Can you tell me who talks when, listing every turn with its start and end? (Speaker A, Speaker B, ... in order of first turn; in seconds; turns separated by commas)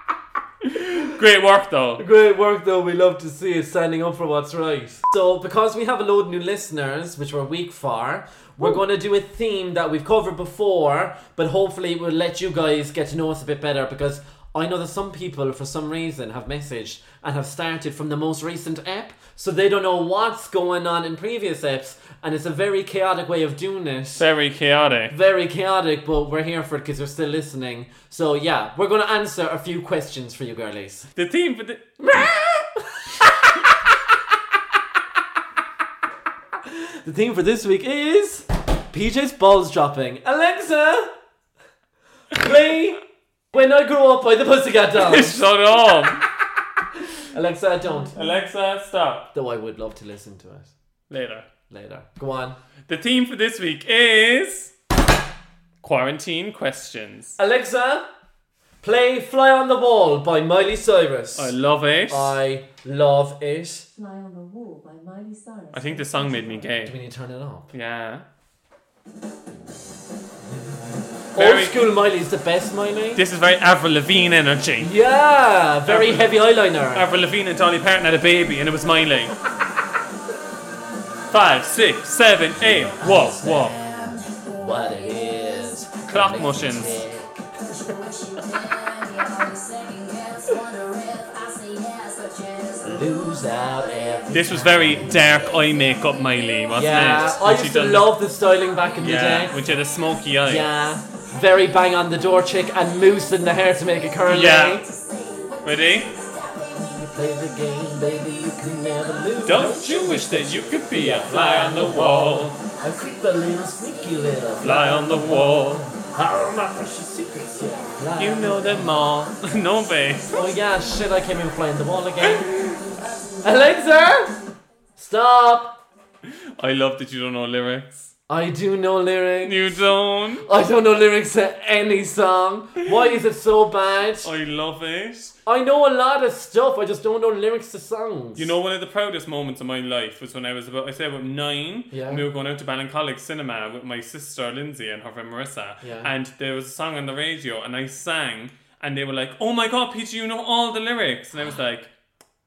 Speaker A: 0.7-2.0, Speaker B: 2.0-24.3, Speaker A: 24.2-25.1, Speaker B: 25.1-31.1, Speaker A: 31.2-31.9, Speaker B: 32.0-33.5, Speaker B: 36.7-41.1, Speaker B: 42.3-45.4, Speaker A: 45.0-46.3, Speaker B: 47.1-48.1, Speaker A: 48.1-49.3, Speaker B: 49.3-50.7, Speaker A: 51.1-51.5, Speaker B: 51.7-52.6, Speaker A: 52.9-54.7, Speaker A: 55.8-57.4, Speaker B: 57.4-58.1, Speaker B: 58.8-61.5, Speaker A: 61.4-62.4, Speaker B: 62.1-63.9, Speaker C: 64.0-66.6, Speaker A: 65.7-66.9, Speaker B: 66.8-67.7, Speaker A: 67.7-68.3, Speaker B: 70.5-70.8, Speaker B: 71.3-73.2, Speaker A: 71.4-71.8, Speaker A: 73.2-74.9, Speaker B: 74.8-77.1, Speaker A: 75.9-76.3, Speaker A: 76.9-79.3, Speaker A: 81.3-83.8, Speaker B: 83.0-87.5, Speaker C: 83.5-86.9, Speaker A: 86.1-87.0, Speaker C: 87.5-97.5, Speaker B: 92.8-95.3, Speaker A: 94.3-98.1, Speaker B: 96.7-99.6, Speaker C: 98.7-110.4, Speaker A: 99.0-100.7, Speaker B: 100.4-104.9, Speaker A: 104.3-104.8, Speaker A: 105.6-106.1, Speaker B: 106.8-119.0, Speaker A: 109.4-112.6, Speaker C: 112.8-114.9, Speaker A: 114.6-115.8, Speaker C: 117.5-118.5, Speaker A: 118.2-120.4, Speaker C: 119.3-120.6, Speaker B: 120.3-122.8, Speaker C: 122.3-123.8, Speaker B: 123.4-124.4, Speaker B: 125.0-125.8, Speaker A: 126.2-128.1, Speaker B: 128.3-129.8, Speaker A: 129.4-130.5, Speaker B: 130.4-134.3, Speaker A: 134.2-135.4, Speaker B: 135.5-138.5, Speaker A: 138.4-151.9, Speaker B: 141.9-142.2, Speaker B: 145.8-146.1